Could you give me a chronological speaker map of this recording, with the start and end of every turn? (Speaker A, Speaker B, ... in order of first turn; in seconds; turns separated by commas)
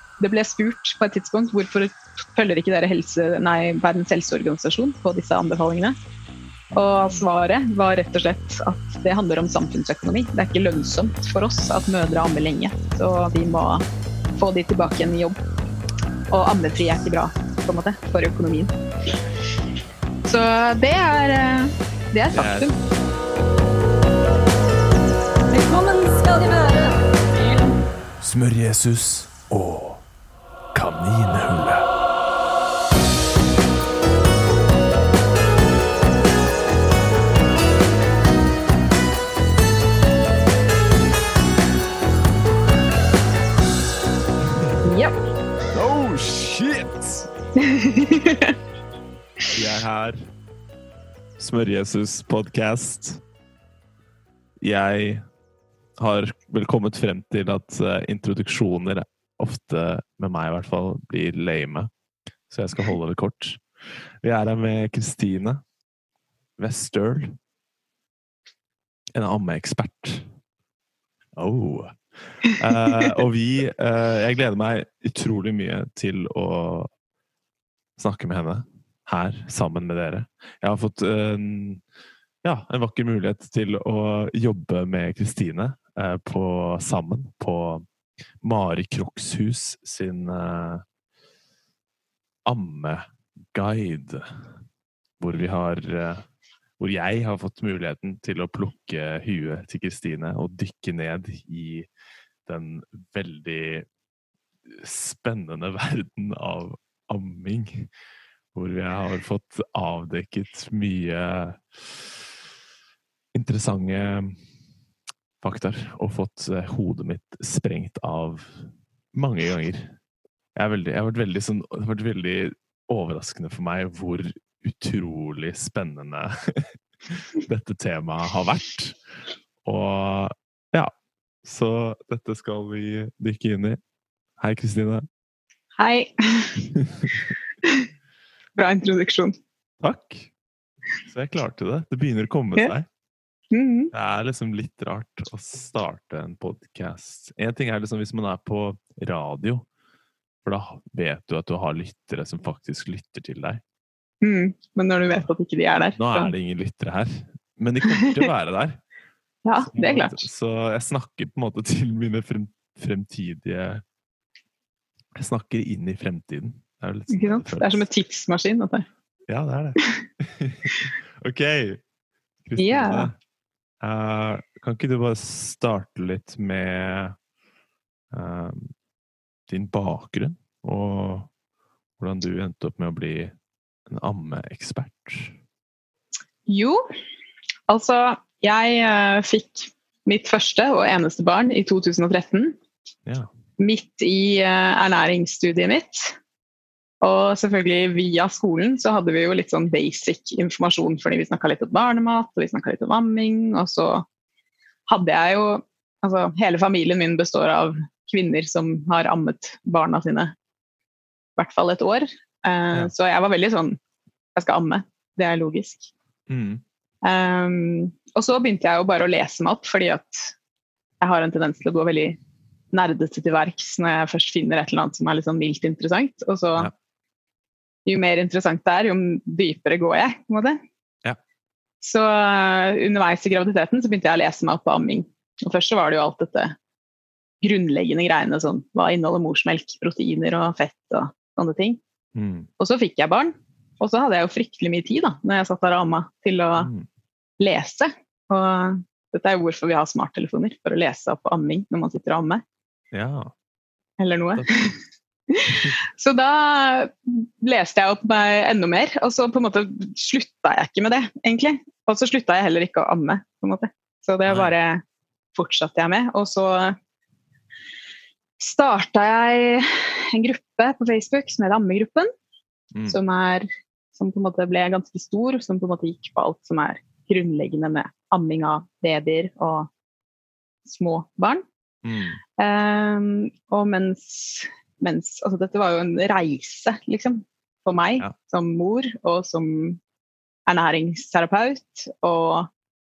Speaker A: 0.2-6.0, Speaker B: 6.7-7.3, Speaker A: 6.7-15.4, Speaker A: 16.3-18.7, Speaker A: 20.3-22.8, Speaker B: 22.3-22.7, Speaker C: 25.5-27.7, Speaker B: 28.2-30.0, Speaker B: 30.7-31.9, Speaker A: 44.8-45.1, Speaker B: 45.7-47.3, Speaker A: 47.6-48.6, Speaker B: 49.5-50.3, Speaker B: 51.4-53.2, Speaker B: 54.6-55.2, Speaker B: 56.0-61.9, Speaker B: 62.5-65.6, Speaker B: 66.6-67.4, Speaker B: 69.2-70.3, Speaker B: 71.4-76.9, Speaker B: 78.0-81.8, Speaker B: 82.4-87.8, Speaker B: 88.4-90.8, Speaker B: 92.5-94.5, Speaker B: 95.2-96.3, Speaker B: 96.8-101.9, Speaker B: 102.5-103.9, Speaker B: 104.7-107.9, Speaker B: 108.5-112.2, Speaker B: 113.3-114.4, Speaker B: 115.4-120.0, Speaker B: 120.5-129.0, Speaker B: 129.6-130.9, Speaker B: 131.4-133.8, Speaker B: 134.4-135.1, Speaker A: 135.8-136.7, Speaker B: 136.8-137.2, Speaker A: 137.6-137.9, Speaker A: 138.6-139.4, Speaker B: 139.8-140.3, Speaker B: 141.1-142.9, Speaker A: 143.5-143.9, Speaker B: 143.9-149.7, Speaker B: 150.4-153.6, Speaker A: 154.2-156.3, Speaker B: 155.0-155.3, Speaker B: 156.0-158.8, Speaker A: 157.9-158.3, Speaker A: 159.4-160.3, Speaker B: 159.6-163.8, Speaker B: 165.2-167.9, Speaker A: 167.1-168.9, Speaker B: 169.3-171.8, Speaker B: 172.4-173.2, Speaker A: 172.6-173.1, Speaker B: 173.8-177.2, Speaker B: 178.1-178.7, Speaker B: 179.5-181.3, Speaker B: 182.0-183.3, Speaker B: 183.9-185.4, Speaker A: 186.5-186.8, Speaker A: 187.7-192.6, Speaker A: 193.6-196.2, Speaker A: 197.0-204.1, Speaker A: 204.9-210.3, Speaker A: 211.4-213.8, Speaker A: 214.3-215.9, Speaker B: 216.3-216.6, Speaker A: 217.0-220.3, Speaker A: 221.0-222.2, Speaker A: 222.7-226.7, Speaker A: 227.9-230.6, Speaker A: 231.8-236.6, Speaker A: 237.4-241.8, Speaker B: 242.2-242.5, Speaker A: 242.6-246.7, Speaker B: 246.6-246.9, Speaker A: 247.4-252.4, Speaker B: 252.9-253.3, Speaker A: 254.0-254.8, Speaker B: 254.4-254.7, Speaker A: 255.3-264.8, Speaker B: 264.3-264.5, Speaker A: 265.3-266.8, Speaker A: 268.4-272.1, Speaker B: 272.7-273.0, Speaker A: 272.9-279.7, Speaker A: 280.6-281.4, Speaker B: 281.8-282.2, Speaker A: 282.4-289.8, Speaker A: 290.5-292.5